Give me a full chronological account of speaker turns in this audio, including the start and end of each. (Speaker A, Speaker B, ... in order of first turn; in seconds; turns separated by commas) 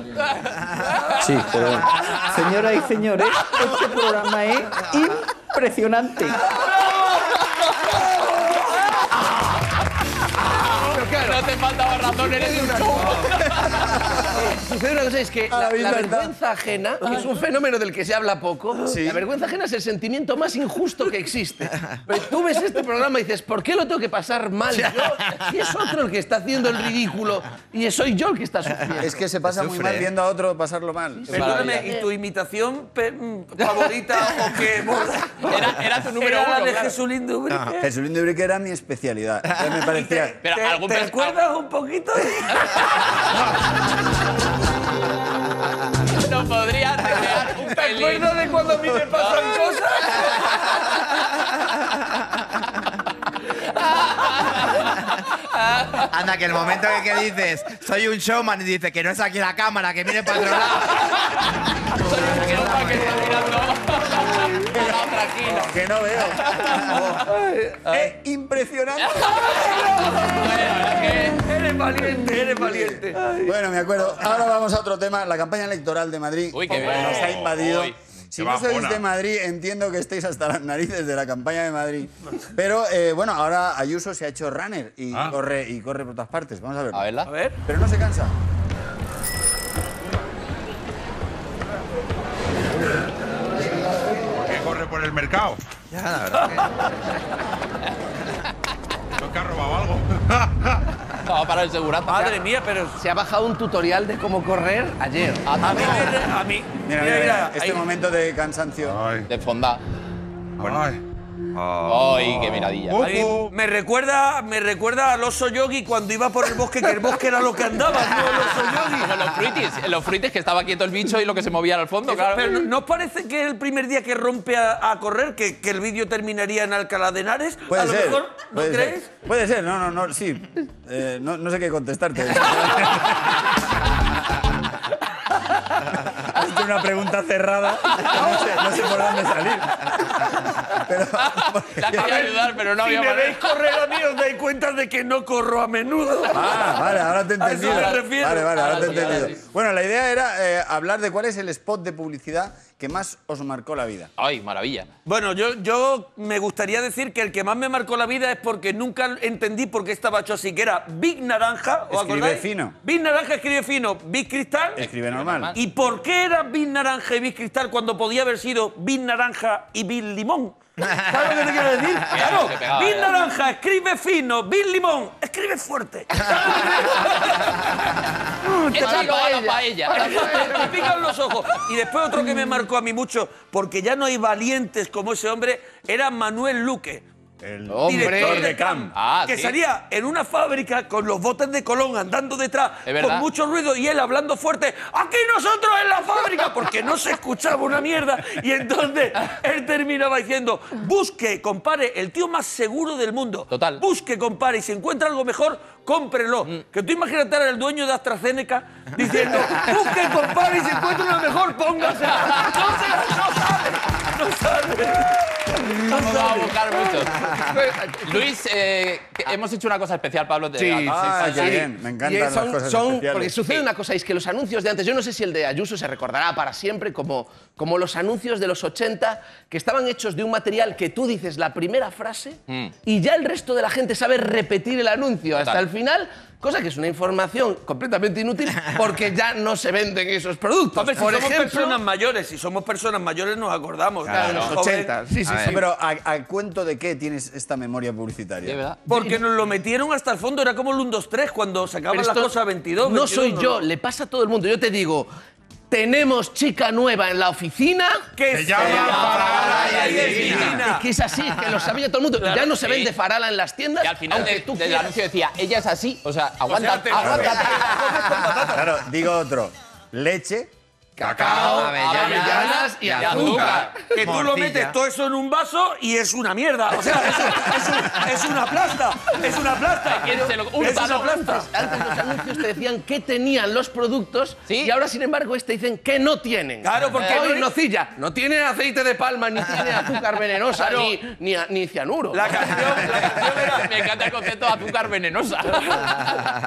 Speaker A: 1.2-6.4, Speaker B: 10.5-11.4, Speaker C: 10.6-14.4, Speaker B: 12.0-13.4, Speaker B: 14.2-29.1, Speaker D: 15.5-16.3, Speaker D: 18.9-19.2, Speaker E: 24.7-25.1, Speaker D: 29.0-31.6, Speaker E: 29.5-30.1, Speaker B: 31.2-32.1, Speaker F: 31.3-37.9, Speaker C: 31.5-31.9, Speaker C: 35.4-37.0, Speaker D: 37.8-40.4, Speaker F: 39.9-43.0, Speaker C: 40.4-41.4, Speaker C: 42.6-43.1, Speaker C: 46.1-49.6, Speaker F: 47.6-50.7, Speaker C: 53.7-56.1, Speaker E: 56.1-61.1, Speaker C: 60.5-67.2, Speaker E: 61.9-63.4, Speaker D: 64.7-67.0, Speaker B: 67.3-67.9, Speaker D: 67.8-69.8, Speaker C: 69.0-71.4, Speaker F: 71.3-73.2, Speaker D: 72.6-87.1, Speaker B: 73.2-73.5, Speaker C: 76.5-77.9, Speaker G: 76.7-77.6, Speaker G: 78.4-79.0, Speaker C: 86.9-87.3, Speaker F: 87.3-87.6, Speaker D: 87.6-88.3, Speaker G: 94.4-95.6, Speaker E: 95.9-96.6, Speaker G: 99.2-100.8, Speaker C: 101.2-102.4, Speaker F: 102.0-103.0, Speaker B: 103.0-105.4, Speaker C: 105.4-106.3, Speaker F: 105.6-107.8, Speaker D: 106.8-109.0, Speaker G: 108.8-109.3, Speaker C: 109.3-109.8, Speaker G: 110.6-111.0, Speaker E: 111.5-112.3, Speaker C: 111.8-113.1, Speaker G: 112.7-113.5, Speaker F: 113.0-119.3, Speaker C: 118.8-122.7, Speaker F: 122.1-129.1, Speaker D: 127.7-133.5, Speaker D: 136.1-142.3, Speaker C: 141.2-143.5, Speaker F: 141.9-149.3, Speaker D: 146.3-154.1, Speaker C: 147.6-149.4, Speaker C: 154.2-154.9, Speaker F: 155.1-164.9, Speaker D: 161.9-162.8, Speaker D: 164.8-165.5, Speaker C: 165.0-165.6, Speaker F: 165.5-177.6, Speaker C: 172.1-173.2, Speaker B: 178.4-180.8, Speaker C: 178.7-180.8, Speaker F: 179.9-187.1, Speaker D: 187.4-188.9, Speaker B: 187.7-188.6, Speaker F: 187.8-216.5, Speaker C: 188.9-189.5, Speaker C: 192.8-193.3, Speaker C: 203.5-203.8, Speaker C: 215.8-217.4, Speaker B: 217.2-218.3, Speaker C: 218.0-221.7, Speaker B: 220.6-241.8, Speaker D: 220.8-223.3, Speaker C: 232.5-232.7, Speaker F: 240.8-244.9, Speaker E: 244.1-244.6, Speaker B: 244.1-245.6, Speaker C: 244.2-244.5, Speaker E: 245.2-245.6, Speaker D: 245.4-248.6, Speaker C: 248.4-248.8, Speaker B: 248.9-249.2, Speaker F: 248.9-253.6, Speaker B: 251.9-255.1, Speaker B: 255.7-264.9, Speaker F: 258.2-260.9, Speaker G: 258.3-260.6, Speaker C: 258.6-260.6, Speaker E: 259.5-260.4, Speaker C: 262.5-262.9, Speaker C: 263.8-267.7, Speaker F: 266.5-268.7, Speaker D: 267.0-267.3, Speaker D: 268.5-270.5, Speaker B: 271.0-273.9, Speaker E: 271.0-274.7, Speaker C: 271.2-273.7, Speaker F: 273.9-281.4, Speaker C: 279.9-281.4, Speaker B: 280.6-292.4, Speaker C: 284.5-284.7, Speaker F: 286.6-287.5, Speaker C: 286.9-287.3, Speaker F: 290.6-291.0, Speaker F: 292.1-294.3, Speaker C: 292.9-296.3